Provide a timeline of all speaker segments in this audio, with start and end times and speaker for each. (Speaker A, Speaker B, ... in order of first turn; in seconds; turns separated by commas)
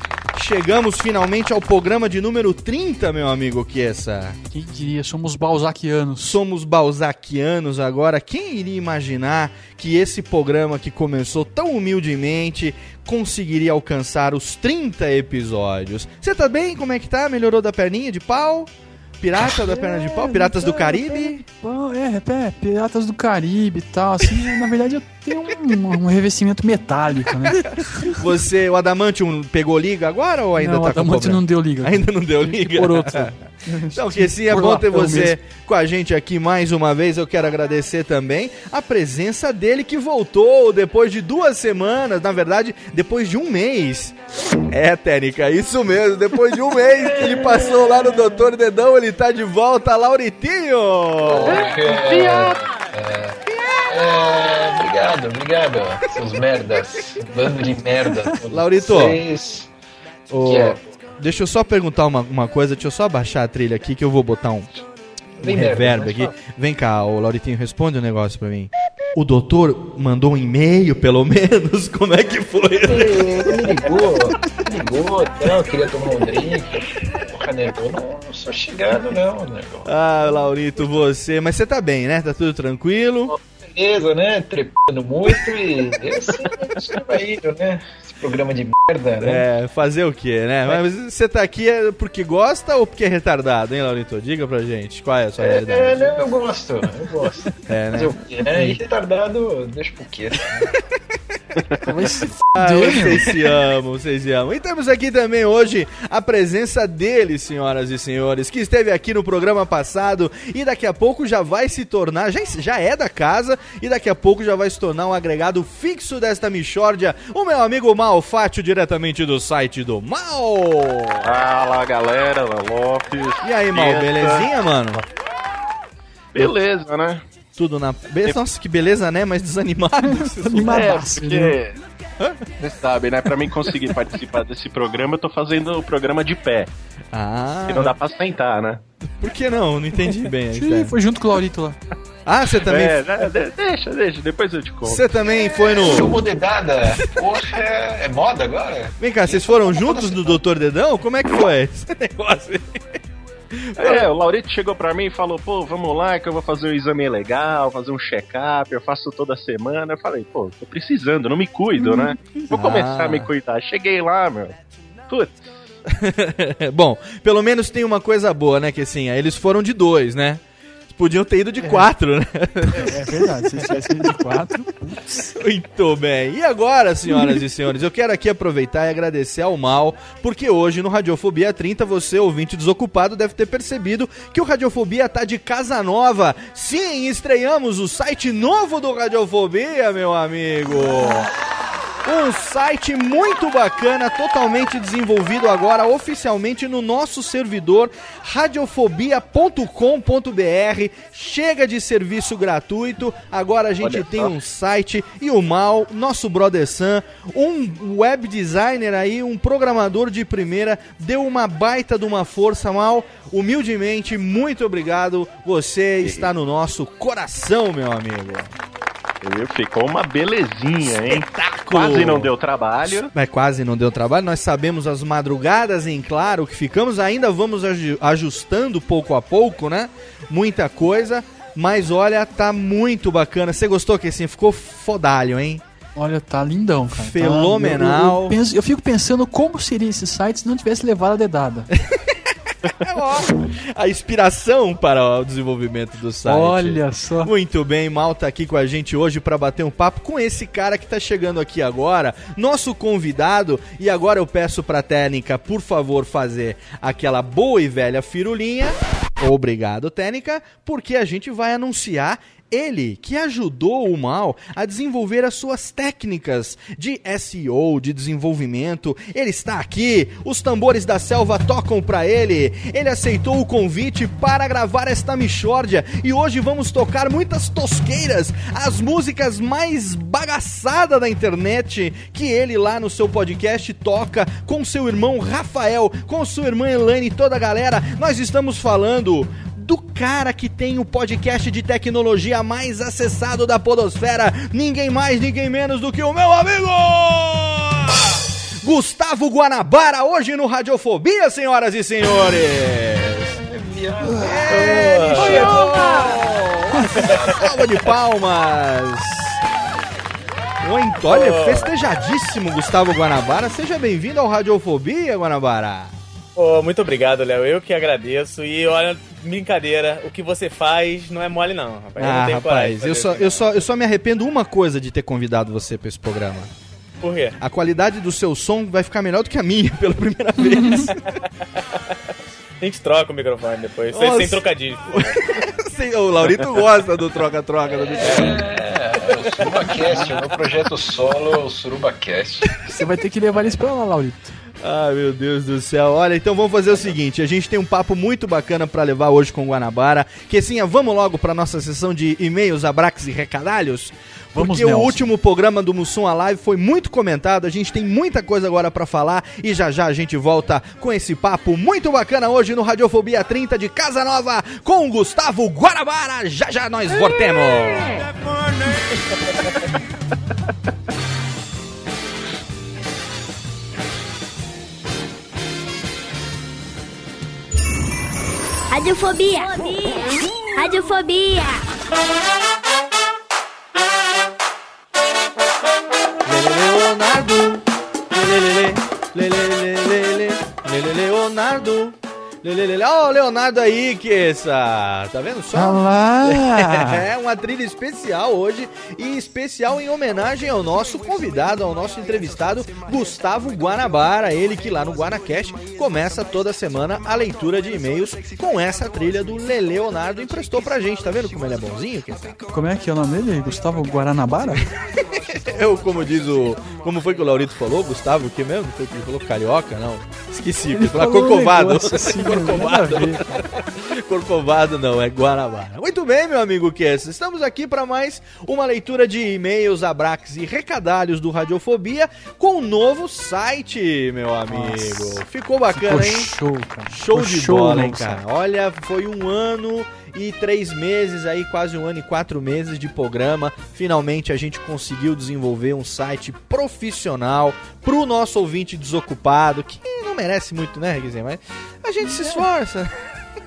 Speaker A: 0.3-4.4, Speaker B: 4.5-6.4, Speaker A: 6.2-21.4, Speaker B: 19.4-28.1, Speaker A: 28.1-33.3, Speaker B: 30.6-35.4, Speaker A: 33.9-44.2, Speaker A: 44.7-51.7, Speaker C: 51.2-59.7, Speaker A: 58.5-59.2, Speaker A: 60.3-64.8, Speaker C: 60.4-60.8, Speaker A: 65.4-73.5, Speaker C: 65.4-66.3, Speaker C: 72.8-79.9, Speaker A: 79.8-83.3, Speaker C: 83.3-89.5, Speaker A: 89.2-96.2, Speaker C: 95.4-100.8, Speaker A: 97.7-98.8, Speaker B: 101.8-103.3, Speaker A: 102.5-121.2, Speaker D: 121.2-125.0, Speaker A: 123.4-125.0, Speaker D: 126.3-127.2, Speaker A: 127.5-130.9, Speaker B: 130.0-131.6, Speaker D: 130.7-131.8, Speaker D: 132.6-136.7, Speaker A: 137.1-137.9, Speaker D: 137.7-138.8, Speaker A: 139.2-140.9, Speaker B: 140.5-141.8, Speaker A: 142.2-143.0, Speaker D: 142.7-145.2, Speaker A: 144.8-146.2, Speaker C: 145.3-150.2, Speaker A: 149.0-152.8, Speaker A: 153.8-154.0, Speaker D: 153.8-164.6, Speaker B: 161.8-162.5, Speaker A: 162.5-163.3, Speaker D: 165.1-165.4, Speaker A: 165.9-173.1, Speaker B: 172.7-175.3, Speaker A: 175.3-191.3, Speaker B: 177.1-177.4, Speaker A: 192.0-218.5, Speaker D: 203.8-204.3, Speaker D: 216.0-216.3, Speaker D: 219.2-223.1, Speaker A: 220.9-222.3, Speaker A: 222.8-235.6, Speaker B: 236.0-241.7, Speaker A: 236.9-238.3, Speaker A: 242.8-303.3, Speaker B: 246.2-247.3, Speaker C: 303.3-306.2, Speaker A: 304.2-309.4, Speaker E: 305.1-306.0, Speaker C: 307.0-307.4, Speaker E: 307.0-307.4, Speaker A: 310.6-315.9, Speaker E: 311.1-311.7, Speaker E: 316.4-323.6, Speaker A: 322.0-326.5, Speaker E: 327.0-327.4, Speaker A: 327.4-331.1, Speaker B: 330.6-330.9, Speaker E: 331.6-331.8, Speaker E: 332.6-335.3, Speaker A: 333.9-338.4, Speaker C: 338.0-342.5, Speaker B: 342.7-344.4, Speaker A: 344.6-368.0, Speaker B: 354.4-355.1, Speaker F: 378.7-381.6, Speaker A: 386.2-412.4, Speaker B: 395.5-397.1, Speaker B: 412.5-414.7, Speaker A: 415.3-436.3, Speaker B: 420.7-423.2, Speaker B: 434.5-438.2, Speaker A: 436.9-452.9, Speaker B: 452.0-452.4